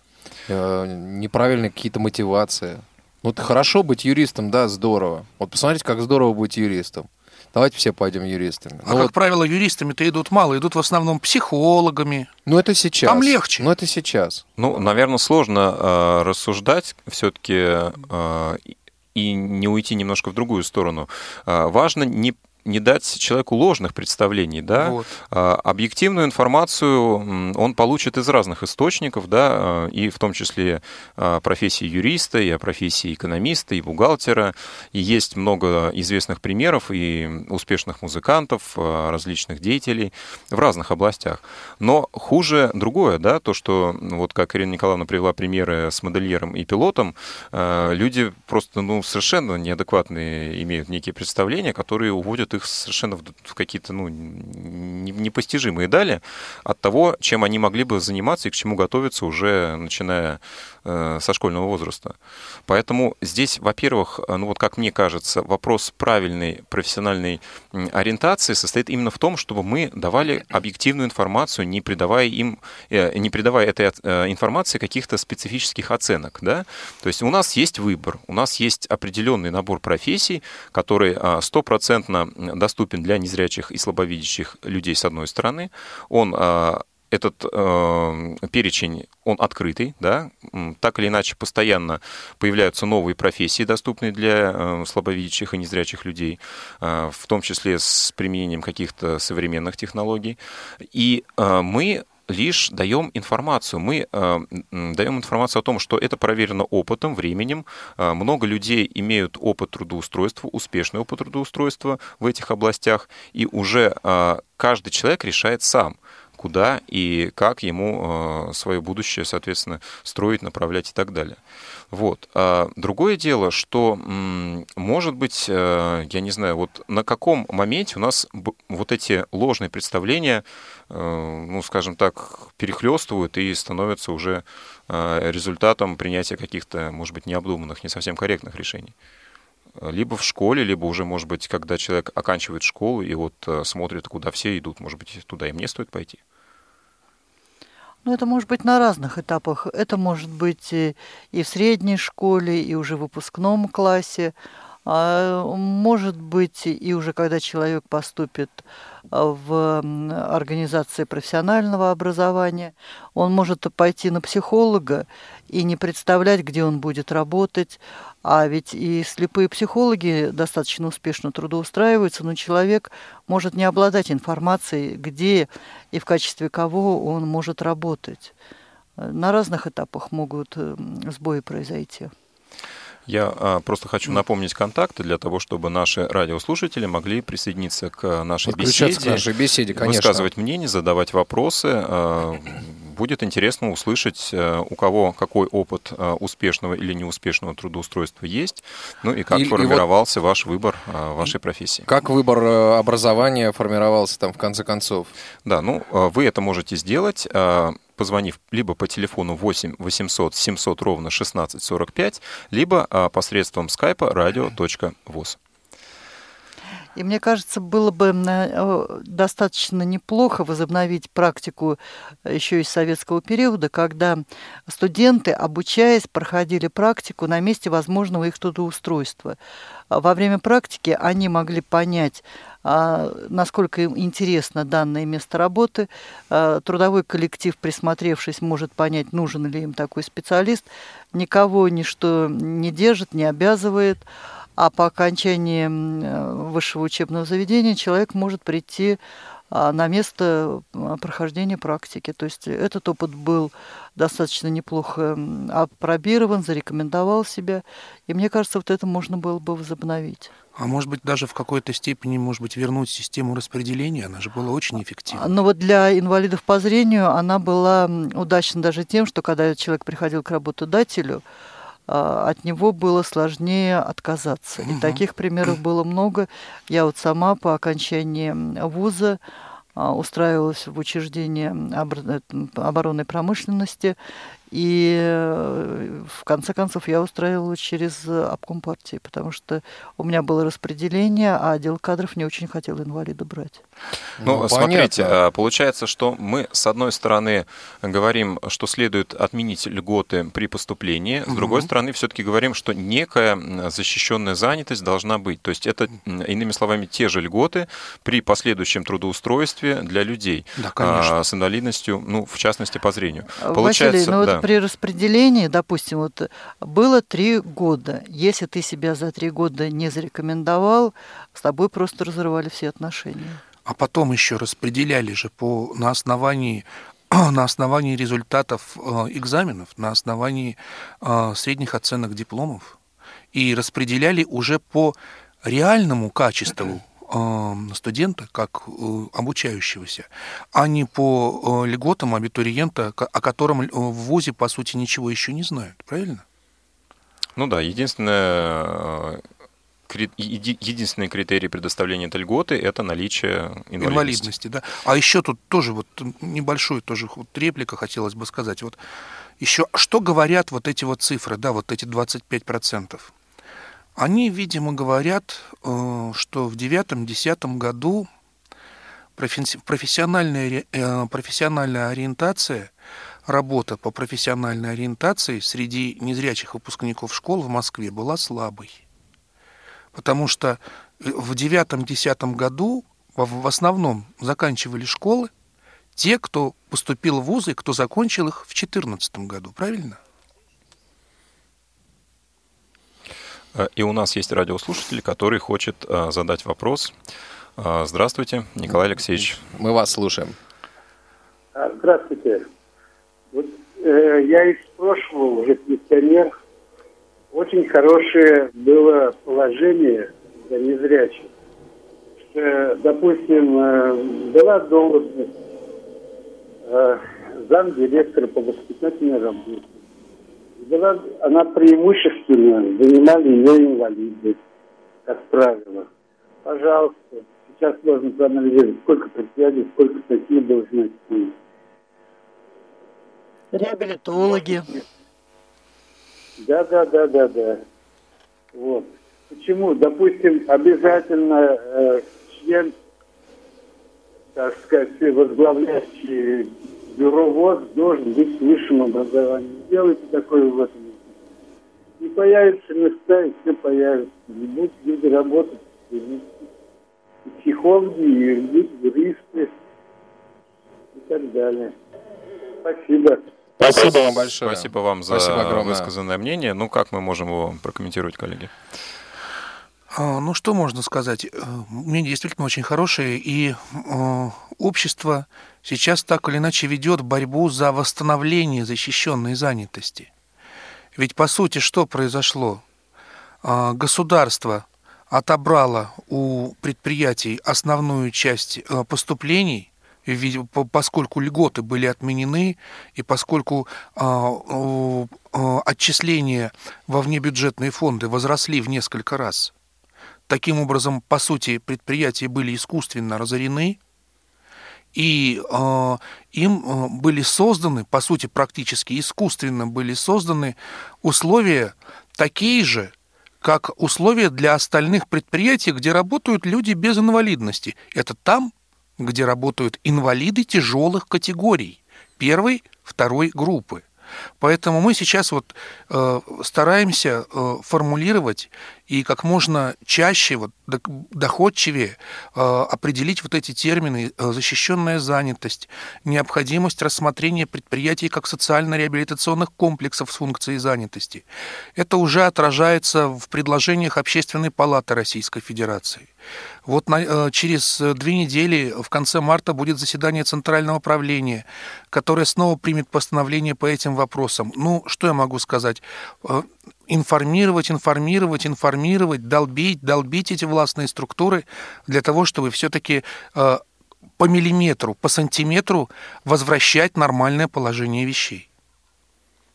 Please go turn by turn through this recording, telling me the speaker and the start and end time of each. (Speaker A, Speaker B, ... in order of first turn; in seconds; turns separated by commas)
Speaker A: 0.5-9.1, Speaker B: 8.8-12.3, Speaker A: 12.5-14.4, Speaker B: 13.0-13.7, Speaker C: 14.6-62.1, Speaker B: 24.7-25.1, Speaker C: 62.7-100.4, Speaker C: 100.9-121.4, Speaker C: 121.9-138.9, Speaker C: 139.8-146.2, Speaker D: 148.0-154.3, Speaker D: 154.8-178.3, Speaker D: 179.0-182.1, Speaker C: 183.1-201.9, Speaker A: 188.4-190.3, Speaker A: 199.3-199.9, Speaker A: 201.8-205.1, Speaker C: 205.4-215.4, Speaker D: 216.9-229.4, Speaker D: 229.9-244.0, Speaker D: 244.6-249.0, Speaker D: 249.5-260.3, Speaker B: 260.6-265.2, Speaker D: 265.1-271.2, Speaker D: 271.9-279.2, Speaker B: 274.6-275.0, Speaker D: 279.8-284.0, Speaker D: 284.5-293.6, Speaker A: 294.2-295.2, Speaker C: 294.2-314.4, Speaker B: 301.3-301.7, Speaker B: 310.6-311.1, Speaker D: 313.4-323.4, Speaker B: 323.6-332.7, Speaker B: 333.3-346.2, Speaker C: 347.4-349.2, Speaker C: 349.9-354.3, Speaker B: 353.8-358.8, Speaker B: 359.4-363.1, Speaker B: 363.9-368.1, Speaker B: 369.1-372.7, Speaker B: 373.2-378.8, Speaker B: 379.9-385.3, Speaker B: 385.9-390.0, Speaker C: 393.5-396.9, Speaker C: 397.6-399.4, Speaker A: 399.4-400.4, Speaker E: 401.5-402.4, Speaker E: 403.3-406.3, Speaker E: 407.3-411.3, Speaker E: 412.3-415.3, Speaker E: 416.7-419.8, Speaker E: 420.6-424.4, Speaker E: 425.1-425.9, Speaker E: 426.4-431.3, Speaker D: 433.5-434.8, Speaker E: 436.4-437.6, Speaker E: 438.5-442.7, Speaker E: 444.3-451.1, Speaker E: 452.0-456.4, Speaker E: 457.2-459.5, Speaker E: 460.9-461.7, Speaker E: 462.6-463.2, Speaker A: 463.6-465.9, Speaker C: 464.4-468.5, Speaker B: 469.9-480.1, Speaker B: 480.9-482.6, Speaker B: 483.4-499.5, Speaker B: 500.3-503.8, Speaker B: 504.9-523.8, Speaker B: 524.4-546.1, Speaker B: 546.6-563.6, Speaker B: 564.2-568.5